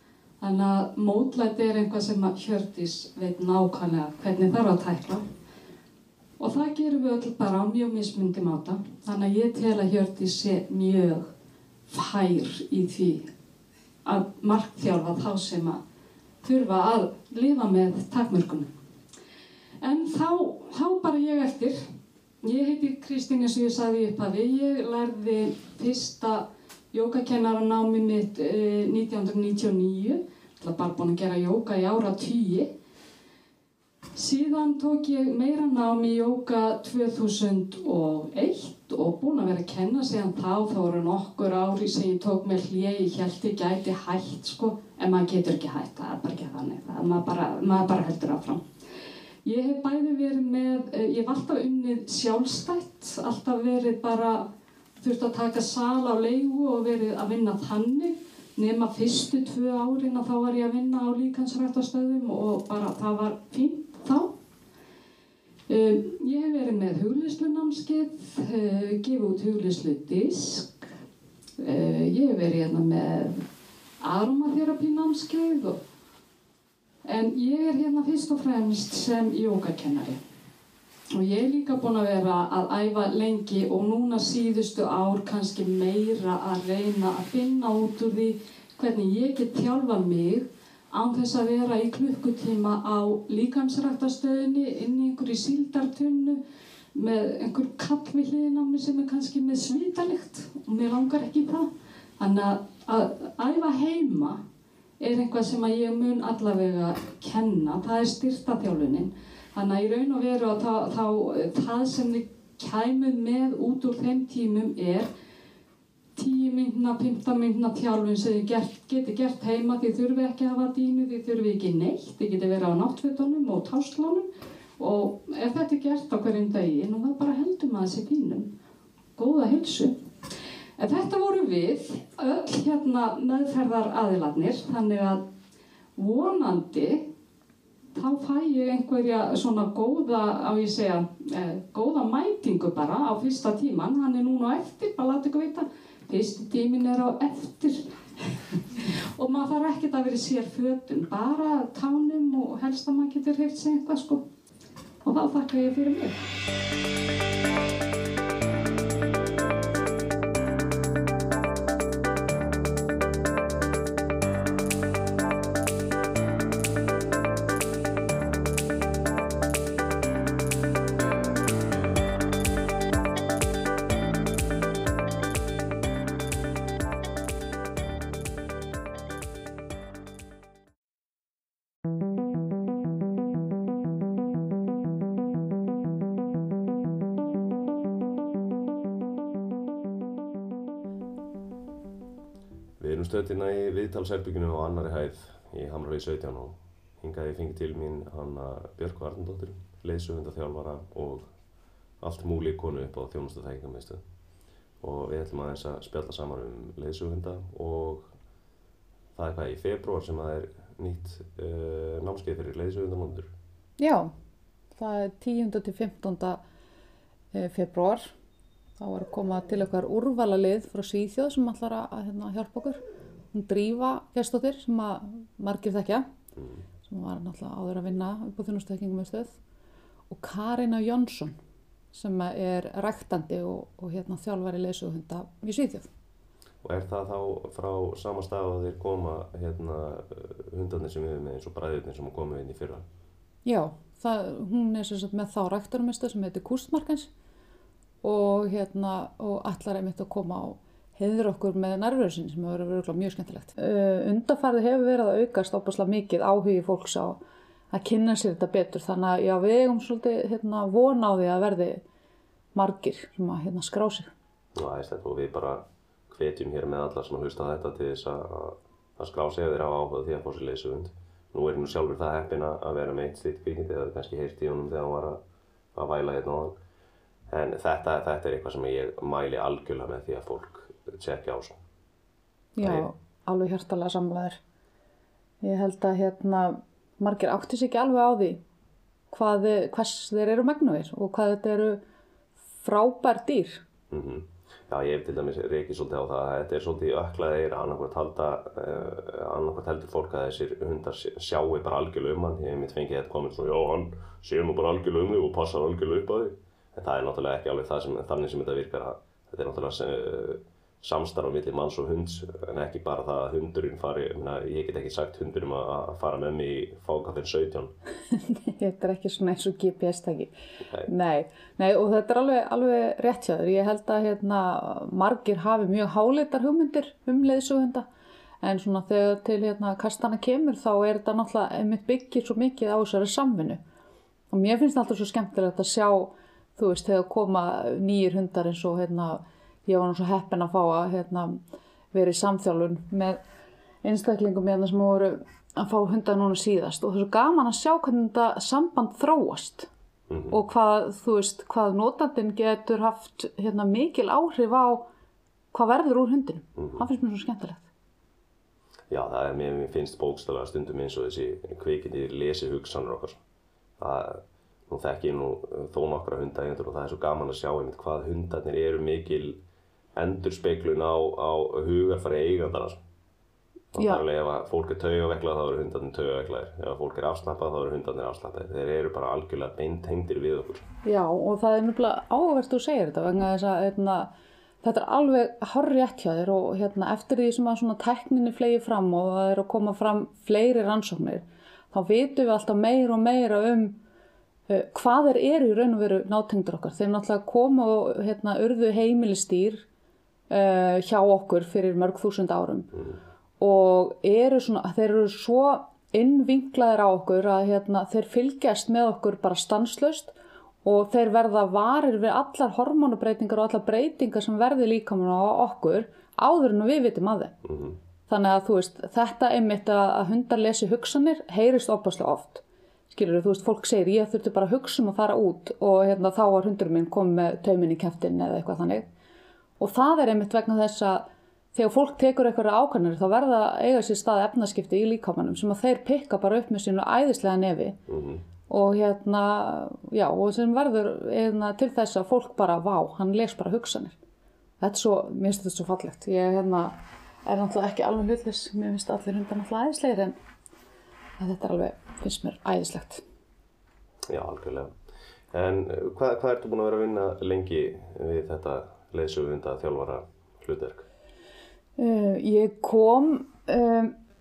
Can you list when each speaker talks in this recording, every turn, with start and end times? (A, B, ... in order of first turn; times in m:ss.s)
0:00.4-0:05.2 A
0:06.4-0:11.3 A
0:11.9-0:13.3 A
0:14.0-0:15.8 A
0:16.4-0:18.7 A
0:19.8-0:21.8 A
0:22.4-0:32.7 A
0:34.1-0:48.6 A
0:49.4-1:04.3 A
1:05.7-1:10.9 A
1:11.6-1:13.4 A
1:14.0-1:15.8 A
1:17.0-1:20.2 A
1:21.1-1:36.4 A
1:36.9-1:41.7 A
1:42.2-1:44.4 A
1:45.0-1:55.1 A
1:56.2-2:08.5 A
2:09.2-2:10.0 A
2:10.8-2:15.2 A
2:16.0-2:17.1 A
2:17.9-2:27.9 A
2:28.7-2:34.2 A
2:35.0-2:36.2 A
3:12.8-3:21.3 B
3:22.0-3:24.0 B
3:24.8-3:28.1 B
3:29.2-3:33.3 B
3:33.8-3:34.1 C
3:34.7-3:36.4 C
3:37.3-3:38.1 C
3:38.8-3:42.8 C
3:43.3-3:46.1 C
3:46.4-3:46.6 B
3:46.9-3:49.3 C
3:50.1-3:51.3 C
3:51.9-3:55.9 C
3:56.6-4:02.8 B
4:03.4-4:07.1 C
4:08.0-4:17.2 C
4:17.7-4:21.8 C
4:22.5-4:24.1 C
4:24.6-4:35.2 B
4:35.7-4:36.6 B
4:37.3-4:41.6 B
4:42.6-4:44.4 C
4:42.6-4:42.9 B
4:45.4-4:48.4 C
4:49.1-4:51.8 C
4:52.6-4:53.6 C
4:53.9-5:17.7 B
5:18.1-5:20.3 C
5:20.8-5:27.8 C
5:28.4-5:33.6 C
5:34.3-5:41.4 C
5:41.9-5:43.2 C
5:43.8-5:49.7 C
5:50.1-5:50.4 B
5:50.3-5:54.9 C
5:55.5-5:57.6 C
5:56.6-5:56.8 B
5:58.9-6:03.2 B
6:03.8-6:09.4 B
6:10.0-6:12.8 B
6:13.7-6:20.7 B
6:13.8-6:14.0 C
6:20.8-6:24.1 C
6:24.6-6:33.8 C
6:34.5-6:39.6 C
6:40.3-6:42.7 C
6:43.4-6:57.3 C
6:57.4-6:57.8 B
6:58.1-7:08.8 C
7:09.6-7:17.8 C
7:17.9-7:18.2 B
7:18.5-7:24.0 C
7:24.6-7:30.1 C
7:31.2-7:33.0 C
7:34.1-7:34.7 B
7:35.3-7:40.8 B
7:41.8-7:43.9 C